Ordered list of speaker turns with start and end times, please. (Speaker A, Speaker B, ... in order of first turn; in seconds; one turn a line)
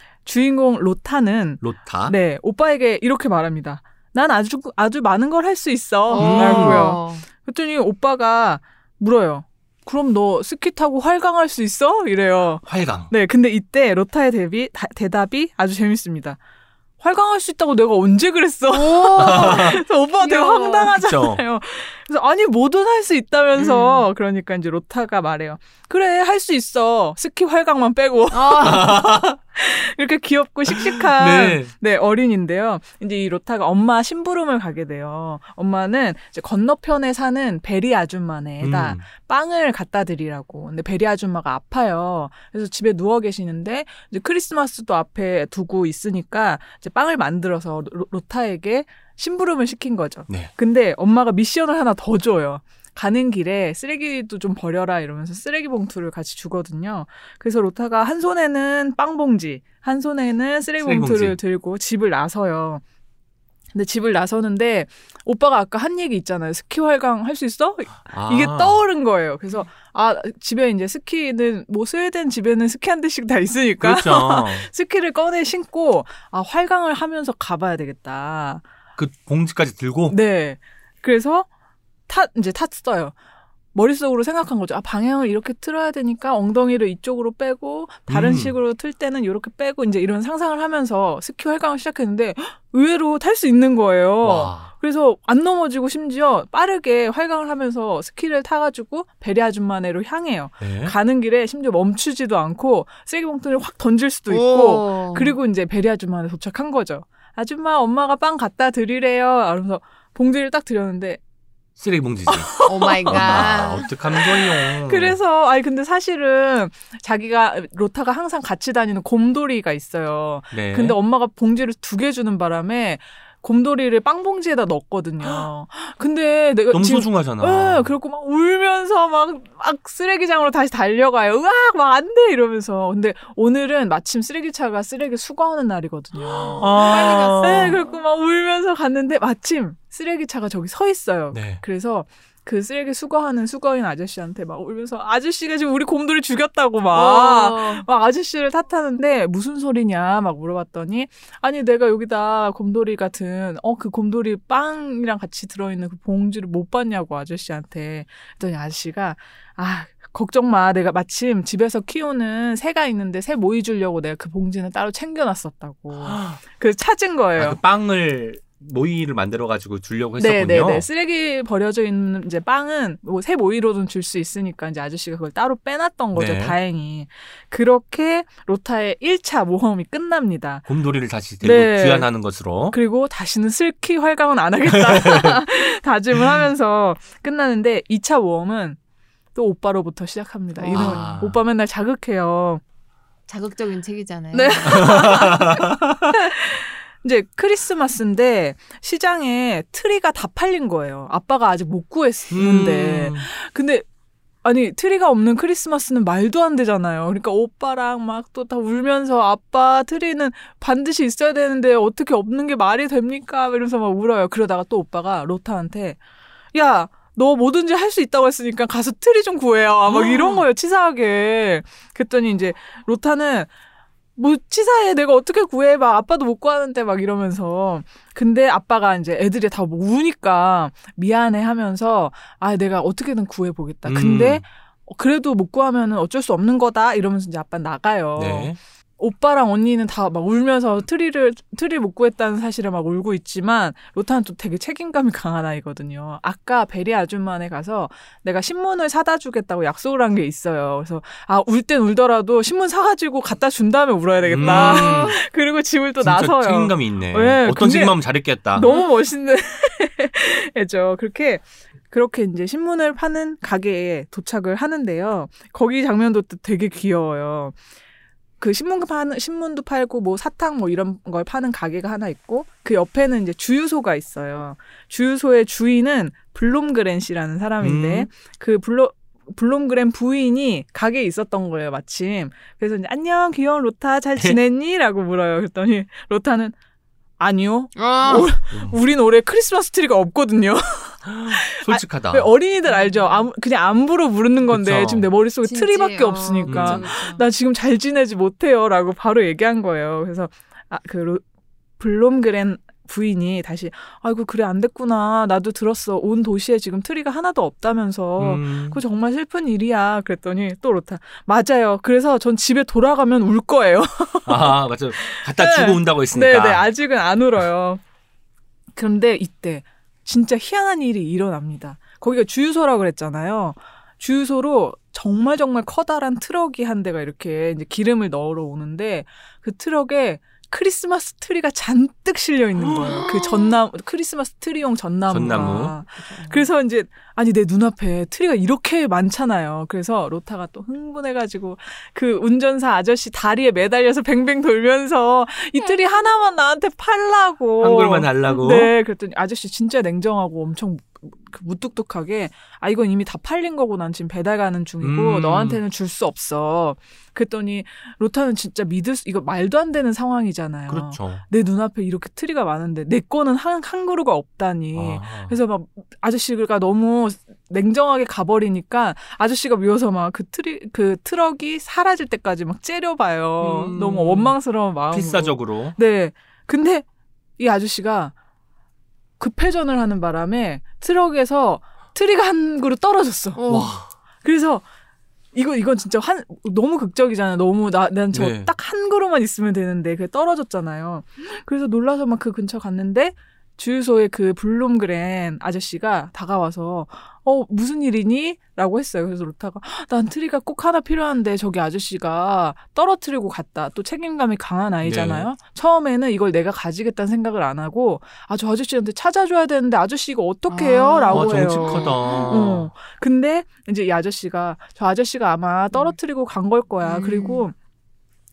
Speaker A: 0.2-16.4
Speaker B: 1.6-2.1
Speaker C: 6.1-7.2
Speaker B: 6.2-7.0
Speaker B: 12.6-13.1
Speaker A: 17.0-62.8
Speaker C: 18.7-21.0
Speaker B: 19.2-19.8
Speaker B: 20.9-21.4
Speaker C: 23.6-24.0
Speaker C: 28.3-29.0
Speaker B: 28.6-29.3
Speaker B: 30.7-31.7
Speaker B: 38.6-39.0
Speaker B: 60.8-61.4
Speaker A: 63.7-78.6
Speaker B: 68.1-68.8
Speaker B: 73.8-74.7
Speaker B: 79.0-80.2
Speaker A: 80.1-81.5
Speaker A: 82.1-83.1
Speaker A: 83.7-111.2
Speaker B: 88.1-88.5
Speaker B: 94.2-94.7
Speaker B: 100.6-100.9
Speaker C: 104.3-105.3
Speaker B: 111.8-115.2
Speaker A: 112.3-113.5
Speaker C: 112.6-113.9
Speaker A: 114.1-167.6
Speaker B: 120.5-121.0
Speaker B: 126.7-127.9
Speaker C: 136.3-137.9
Speaker B: 136.6-137.8
Speaker B: 141.3-141.6
Speaker C: 146.9-147.8
Speaker B: 166.0-166.4
Speaker B: 167.3-170.9
Speaker A: 170.2-180.7
Speaker B: 176.1-176.6
Speaker B: 180.7-182.8
Speaker A: 181.4-182.1
Speaker A: 182.7-188.8
Speaker B: 184.7-185.4
Speaker B: 186.1-186.4
Speaker A: 189.3-192.6
Speaker C: 190.6-191.1
Speaker B: 190.7-191.4
Speaker C: 193.3-195.2
Speaker A: 194.3-203.8
Speaker B: 194.7-195.7
Speaker B: 202.3-203.3
Speaker A: 204.4-216.0
Speaker A: 216.5-223.5
Speaker B: 219.8-220.4
Speaker A: 224.2-267.6
Speaker B: 233.8-234.4
Speaker B: 238.2-238.6
Speaker B: 254.2-255.2
Speaker C: 254.4-255.2
Speaker B: 256.0-258.7
Speaker C: 258.6-258.9
Speaker A: 268.4-286.5
Speaker B: 277.6-278.1
Speaker A: 287.2-301.2
Speaker C: 287.8-288.3
Speaker B: 288.5-288.8
Speaker B: 291.1-292.3
Speaker C: 292.6-293.2
Speaker B: 294.5-295.1
Speaker C: 295.4-297.2
Speaker B: 296.5-296.8
Speaker A: 301.8-317.8
Speaker B: 308.2-308.8
Speaker B: 314.2-316.6
Speaker A: 318.8-376.9
Speaker C: 332.8-333.5
Speaker B: 335.1-335.7
Speaker C: 335.9-336.5
Speaker B: 347.6-348.7
Speaker B: 354.8-355.6
Speaker B: 360.7-361.2
Speaker B: 364.7-365.4
Speaker B: 373.4-374.4
Speaker B: 374.9-375.8
Speaker A: 377.4-378.1
Speaker A: 379.2-383.6
Speaker C: 383.3-383.7
Speaker B: 383.5-383.9
Speaker A: 384.2-384.6
Speaker A: 385.3-417.5
Speaker B: 388.1-388.5
Speaker B: 404.8-405.3
Speaker C: 410.5-412.5
Speaker B: 411.1-412.7
Speaker C: 416.8-417.5